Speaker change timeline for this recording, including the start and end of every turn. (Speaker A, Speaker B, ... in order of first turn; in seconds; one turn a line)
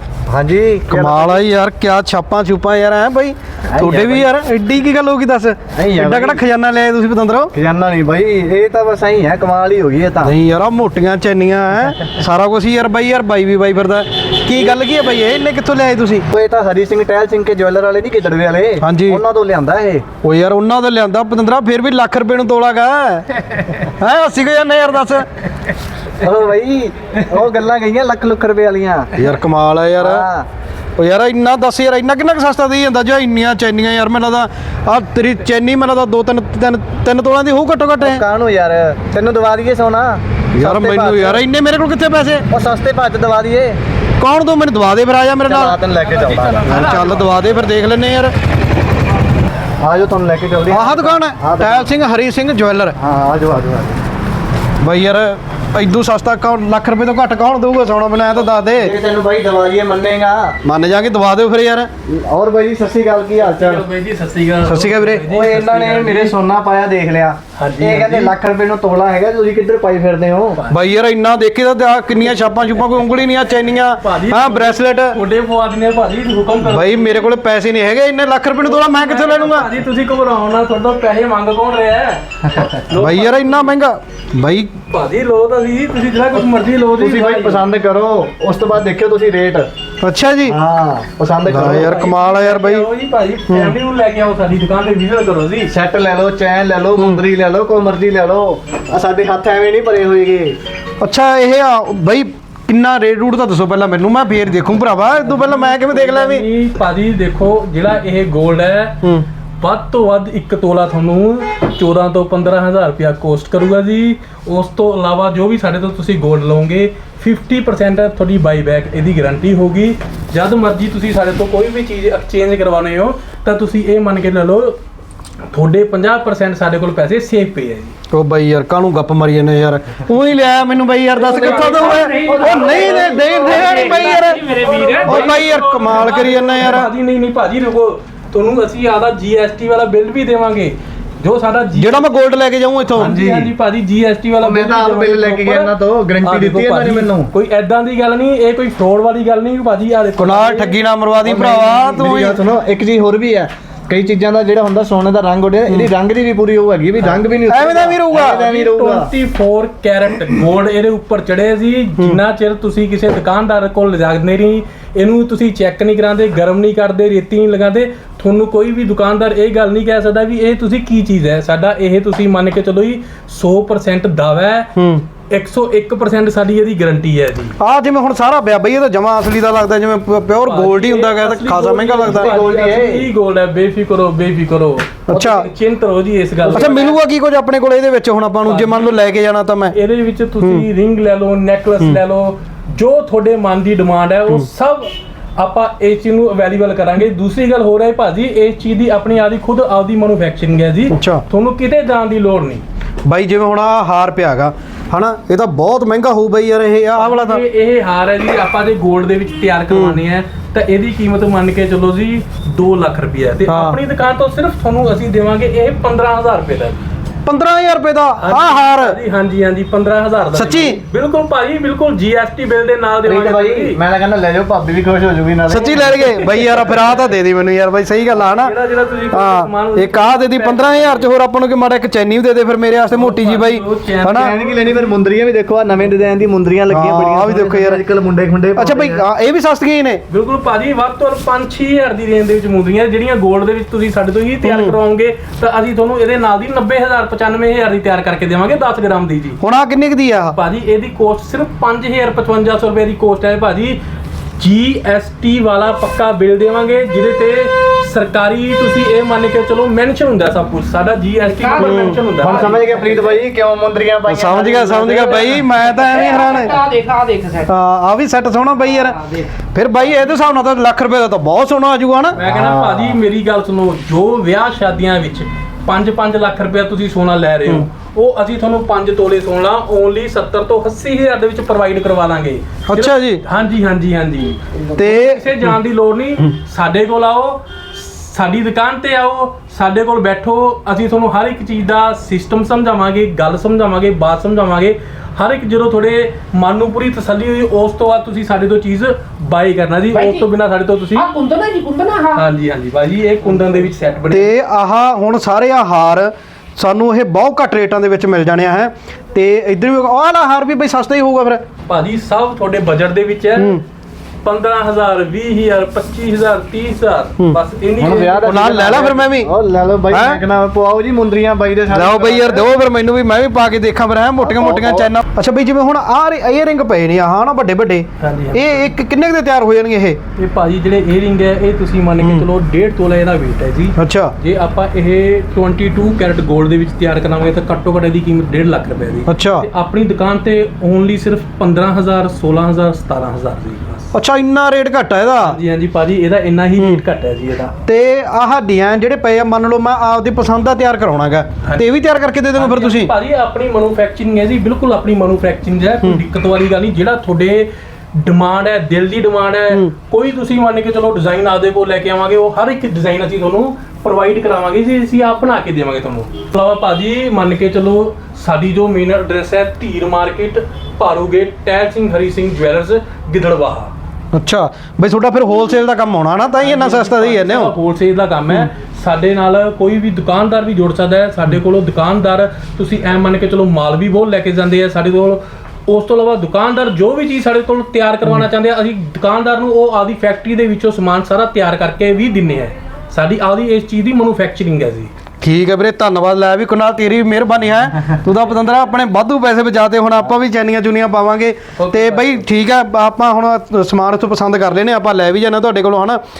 Speaker A: 0.3-1.5
Speaker B: 0.9-7.5
Speaker A: 3.7-4.3
Speaker A: 5.7-6.4
Speaker A: 7.5-10.3
Speaker B: 10.2-16.2
Speaker A: 16.3-20.1
Speaker B: 18.8-19.2
Speaker B: 20.2-25.2
Speaker A: 26.2-29.1
Speaker B: 29.1-30.2
Speaker A: 30.0-30.5
Speaker B: 31.0-38.2
Speaker A: 38.0-41.4
Speaker B: 40.5-42.5
Speaker A: 42.5-43.8
Speaker B: 44.2-45.8
Speaker A: 45.5-46.8
Speaker C: 46.3-47.2
Speaker B: 46.6-48.3
Speaker A: 49.8-51.9
Speaker B: 50.7-52.9
Speaker A: 53.0-54.0
Speaker B: 54.8-58.9
Speaker A: 58.7-60.6
Speaker B: 60.6-61.9
Speaker A: 62.1-63.8
Speaker C: 63.4-66.3
Speaker B: 64.6-65.2
Speaker A: 65.2-70.6
Speaker C: 67.6-68.3
Speaker C: 70.5-70.9
Speaker B: 70.7-75.2
Speaker C: 74.0-77.4
Speaker B: 76.6-79.7
Speaker C: 78.6-82.2
Speaker A: 82.4-82.8
Speaker C: 82.9-83.7
Speaker B: 82.9-84.7
Speaker C: 84.9-87.7
Speaker A: 86.3-89.7
Speaker B: 90.0-90.5
Speaker A: 90.5-92.0
Speaker B: 91.5-92.9
Speaker C: 91.6-95.7
Speaker B: 93.5-93.8
Speaker A: 95.7-100.5
Speaker B: 97.0-97.2
Speaker B: 101.0-106.4
Speaker C: 105.3-109.0
Speaker C: 109.6-124.8
Speaker C: 125.5-127.9
Speaker B: 128.1-134.4
Speaker C: 131.1-142.2
Speaker D: 131.5-135.4
Speaker B: 135.0-136.9
Speaker B: 141.8-143.2
Speaker C: 142.9-150.8
Speaker A: 143.0-143.5
Speaker A: 144.4-147.3
Speaker B: 150.2-152.4
Speaker A: 151.2-159.1
Speaker B: 157.5-158.4
Speaker C: 158.1-174.7
Speaker B: 174.8-175.0
Speaker C: 175.3-177.6
Speaker B: 177.6-182.3
Speaker C: 180.4-186.9
Speaker A: 182.0-183.1
Speaker B: 185.1-185.5
Speaker A: 186.4-187.0
Speaker B: 186.5-189.8
Speaker C: 188.4-188.9
Speaker C: 189.7-202.6
Speaker B: 190.4-190.7
Speaker B: 200.9-201.2
Speaker B: 203.1-207.4
Speaker C: 207.0-216.8
Speaker B: 209.7-210.0
Speaker B: 213.5-213.8
Speaker B: 217.2-219.0
Speaker C: 218.2-223.8
Speaker B: 220.3-220.8
Speaker A: 223.1-226.3
Speaker B: 225.5-228.5
Speaker C: 226.5-227.0
Speaker C: 228.2-231.1
Speaker B: 229.1-234.3
Speaker C: 232.9-234.9
Speaker A: 234.1-239.0
Speaker B: 236.7-237.8
Speaker B: 238.6-240.0
Speaker C: 240.1-249.4
Speaker B: 244.4-244.8
Speaker B: 249.4-250.4
Speaker C: 250.3-253.8
Speaker C: 254.4-262.6
Speaker D: 261.3-263.2
Speaker B: 261.6-262.0
Speaker A: 262.1-265.4
Speaker B: 264.1-266.6
Speaker D: 265.6-267.5
Speaker B: 267.5-272.2
Speaker D: 268.8-269.3
Speaker C: 272.1-301.1
Speaker A: 272.2-273.0
Speaker B: 282.7-283.2
Speaker B: 284.8-285.6
Speaker D: 299.9-300.2
Speaker D: 300.9-302.2
Speaker C: 302.1-304.3
Speaker B: 304.1-311.4
Speaker C: 311.7-313.6
Speaker B: 313.4-313.6
Speaker C: 314.2-318.9
Speaker A: 317.8-322.5
Speaker B: 318.2-319.3
Speaker B: 319.9-320.2
Speaker B: 321.7-330.0
Speaker A: 324.2-324.9
Speaker C: 328.0-328.7
Speaker C: 330.2-343.9
Speaker B: 332.0-332.3
Speaker B: 333.8-334.1
Speaker B: 339.1-339.5
Speaker B: 343.9-345.4
Speaker C: 345.2-347.5
Speaker B: 347.6-352.9
Speaker C: 352.4-373.7
Speaker B: 374.1-377.5
Speaker C: 376.4-394.9
Speaker B: 395.2-406.0
Speaker C: 401.6-402.2